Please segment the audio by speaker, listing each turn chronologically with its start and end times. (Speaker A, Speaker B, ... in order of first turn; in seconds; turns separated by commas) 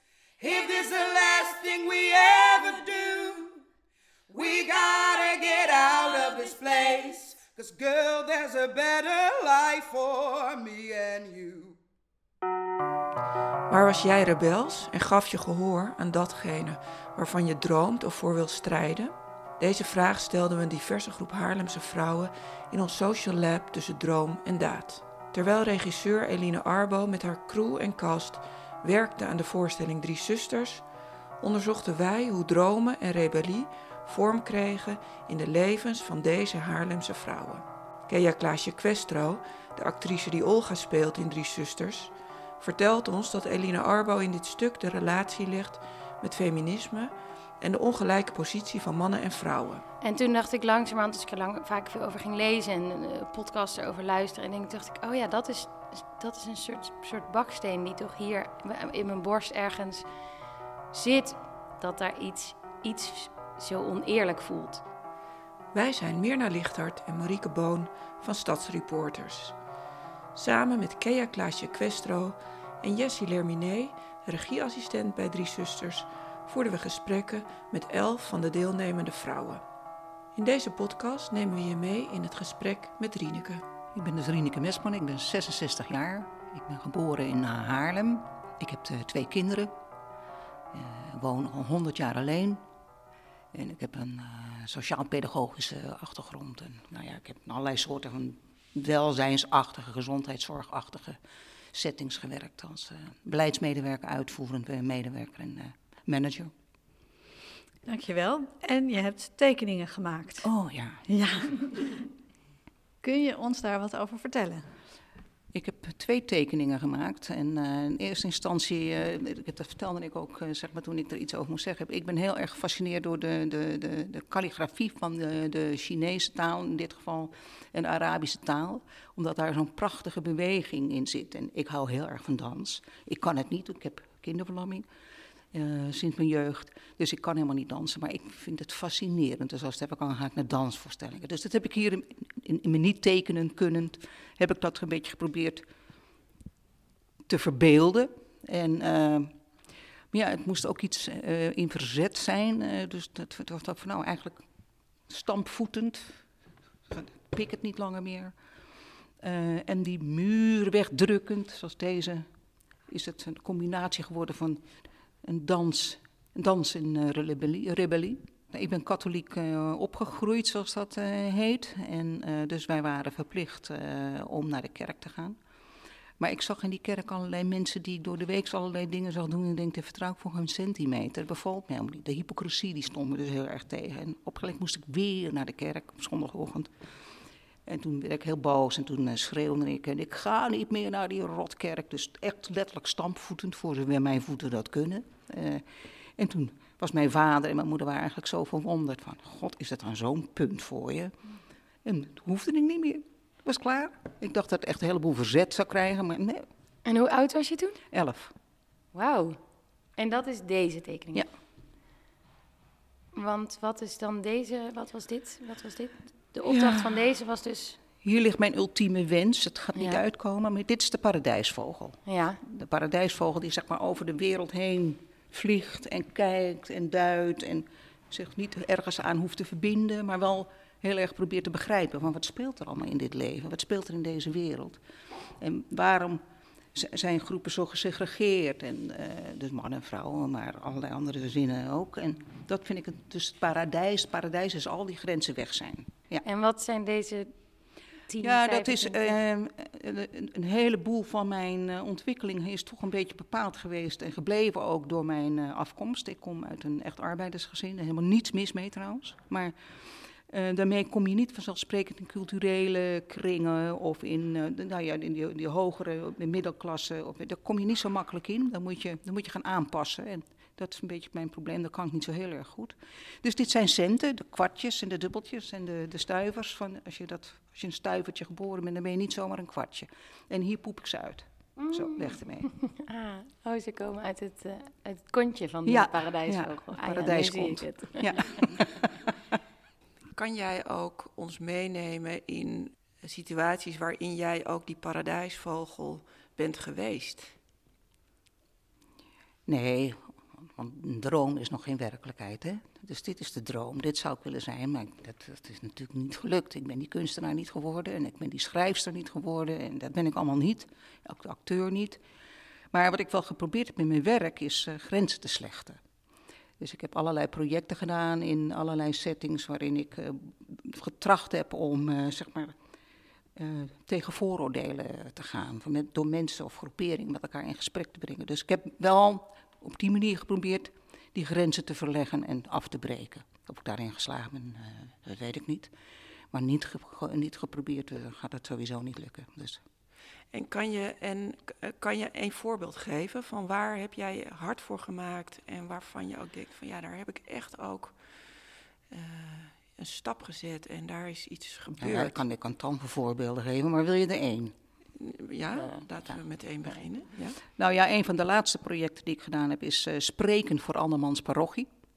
Speaker A: 0.4-3.6, Speaker A: 4.3-11.8, Speaker B: 13.7-30.8, Speaker B: 31.4-49.8, Speaker C: 50.0-60.1, Speaker C: 60.9-64.8, Speaker B: 65.7-69.6, Speaker B: 70.3-79.6, Speaker B: 80.3-83.6, Speaker D: 83.9-89.7, Speaker D: 90.7-92.6, Speaker D: 93.5-101.2, Speaker D: 101.7-106.5, Speaker E: 107.9-110.4, Speaker D: 110.4-111.0, Speaker E: 111.1-112.0, Speaker E: 113.0-114.6, Speaker D: 115.5-134.9, Speaker D: 135.5-145.6, Speaker D: 147.3-149.3, Speaker D: 150.1-154.5, Speaker D: 155.1-156.3, Speaker D: 156.9-158.3, Speaker D: 159.2-162.2, Speaker D: 162.9-164.7, Speaker D: 165.2-175.4, Speaker D: 176.2-186.7, Speaker D: 187.7-195.6, Speaker D: 196.2-201.1, Speaker D: 201.8-206.4, Speaker C: 206.8-207.8, Speaker D: 207.9-208.3, Speaker C: 208.9-209.4, Speaker C: 210.0-211.3, Speaker C: 213.1-217.8, Speaker D: 216.5-216.9, Speaker D: 218.0-234.8, Speaker C: 219.8-220.0, Speaker C: 222.1-222.4, Speaker D: 235.4-236.2, Speaker D: 236.7-246.2, Speaker C: 246.2-247.4, Speaker C: 248.1-249.2, Speaker D: 248.2-259.5, Speaker D: 260.2-282.5, Speaker C: 281.6-288.4, Speaker D: 285.7-288.9, Speaker B: 290.1-297.4, Speaker D: 299.5-312.0, Speaker D: 312.7-315.8, Speaker D: 316.6-322.5, Speaker D: 323.4-335.7, Speaker D: 336.3-339.6, Speaker B: 340.3-347.9, Speaker B: 348.9-352.2, Speaker D: 351.8-354.6, Speaker B: 355.0-357.4, Speaker D: 357.5-361.7